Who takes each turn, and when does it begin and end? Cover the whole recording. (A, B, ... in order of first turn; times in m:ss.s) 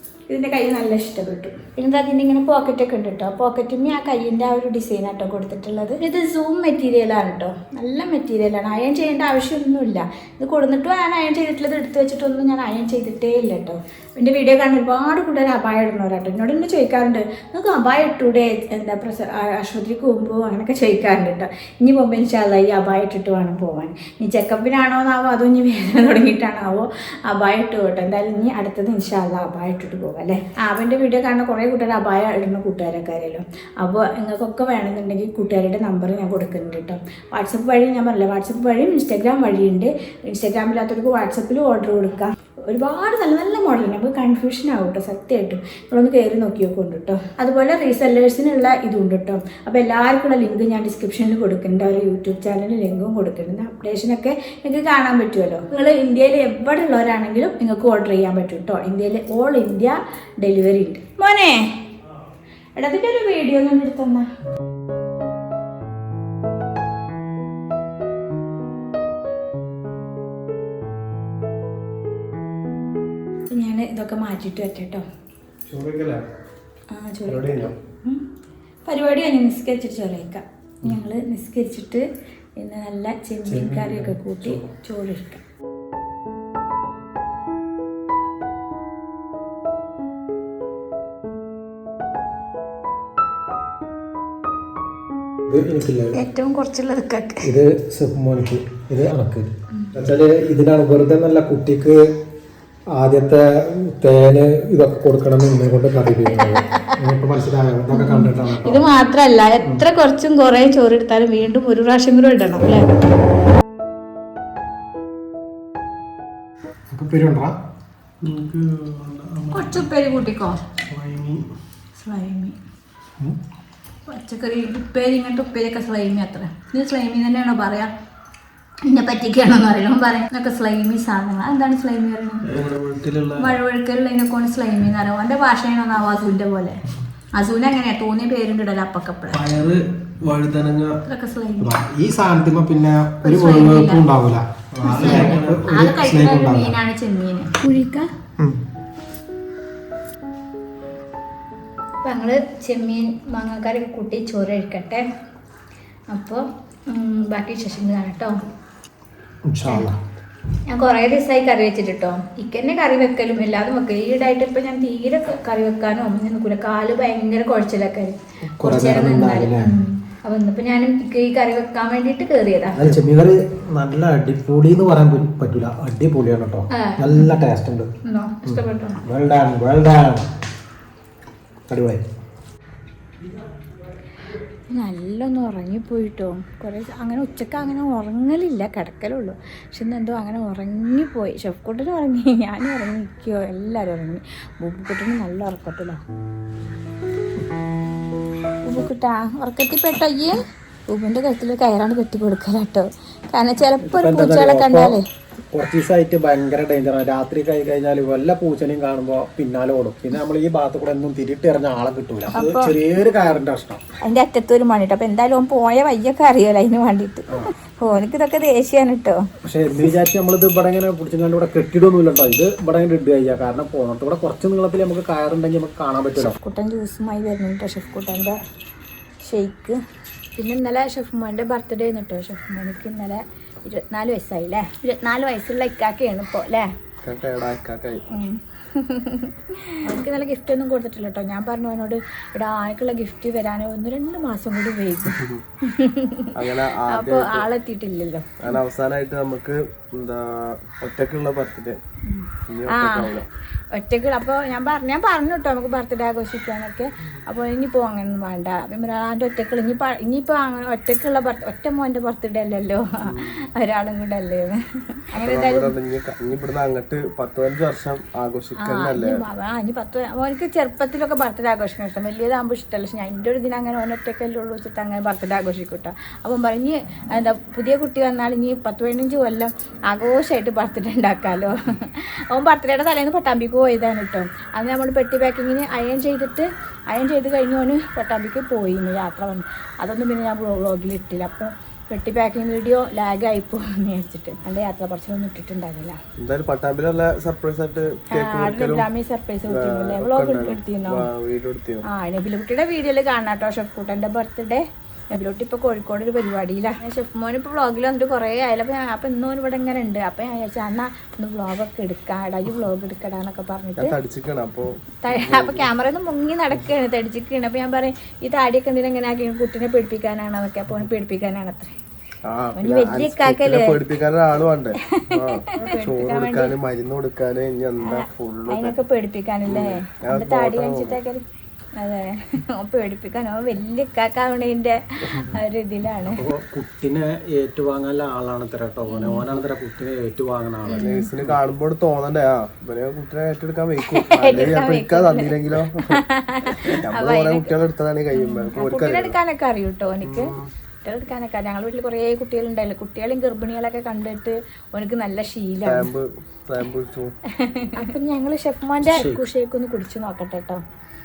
0:00.3-1:01.7 A
1:02.8-1:04.3 A
1:13.5-1:15.0 A
1:15.7-1:16.3 B
1:16.9-1:18.2 A
1:17.2-1:17.8 B
1:18.8-1:25.4 A
1:23.7-1:24.0 B
1:35.5-1:36.2 C
1:36.1-1:37.5 A
1:37.4-1:42.0 C
1:42.9-1:48.8 C
1:46.3-1:47.0 A
1:47.9-1:53.0 A
1:56.9-1:57.6 C
1:58.2-1:59.8 C
1:59.5-2:00.7 A
2:00.8-2:01.5 C
2:02.0-2:02.6 A
2:04.1-2:07.9 A
2:08.8-2:12.4 A
2:12.4-2:13.5 B
2:13.4-2:16.8 A
2:17.3-2:19.4 A
2:19.3-2:21.0 B
2:21.0-2:21.7 A
2:21.6-2:26.8 C
2:23.2-2:24.0 A
2:24.8-2:28.1 A
2:25.0-2:25.5 B
2:32.0-2:35.1 A
2:36.1-2:38.4 A
2:39.5-2:40.0 C
2:39.6-2:39.9 A
2:40.7-2:52.9 A
2:48.6-2:49.8 C
2:52.8-2:57.9 C
2:56.7-2:57.4 A
2:58.0-2:59.0 A
2:58.4-3:00.3 C
3:01.7-3:02.0 C
3:04.7-3:16.0 A
3:18.6-3:20.4 A
3:20.9-3:25.0 A
3:23.8-3:25.0 C
3:25.5-3:33.8 C
3:32.3-3:32.7 A
3:34.0-3:39.2 A
3:39.4-3:46.4 C
3:46.2-3:48.4 A
3:49.2-3:49.8 A
3:50.4-3:56.7 A
3:57.0-3:58.0 B
3:58.1-4:08.6 A
4:05.1-4:05.4 B
4:06.3-4:07.5 B
4:08.4-4:11.8 B
4:12.1-4:13.2 A
4:12.5-4:13.3 B
4:13.7-4:25.7 A
4:23.0-4:23.4 B
4:25.2-4:29.2 B
4:28.6-4:56.0 A
4:56.2-4:58.9 B
4:58.1-5:01.1 A
4:59.5-5:01.8 B
5:01.9-5:13.9 A
5:13.8-5:15.7 B
5:15.0-5:21.7 A
5:22.2-5:28.8 B
5:22.6-5:23.8 A
5:24.8-5:26.5 A
5:27.8-5:31.2 A
5:29.5-5:31.0 B
5:31.8-5:36.2 A
5:36.0-5:41.3 C
5:38.9-5:39.3 A
5:40.6-5:41.1 A
5:40.7-5:49.2 B
5:43.9-5:47.5 A
5:48.1-5:50.3 A
5:50.0-5:50.5 B
5:50.8-5:55.9 A
5:55.6-5:57.1 B
5:57.3-6:00.6 A
5:58.8-5:59.3 C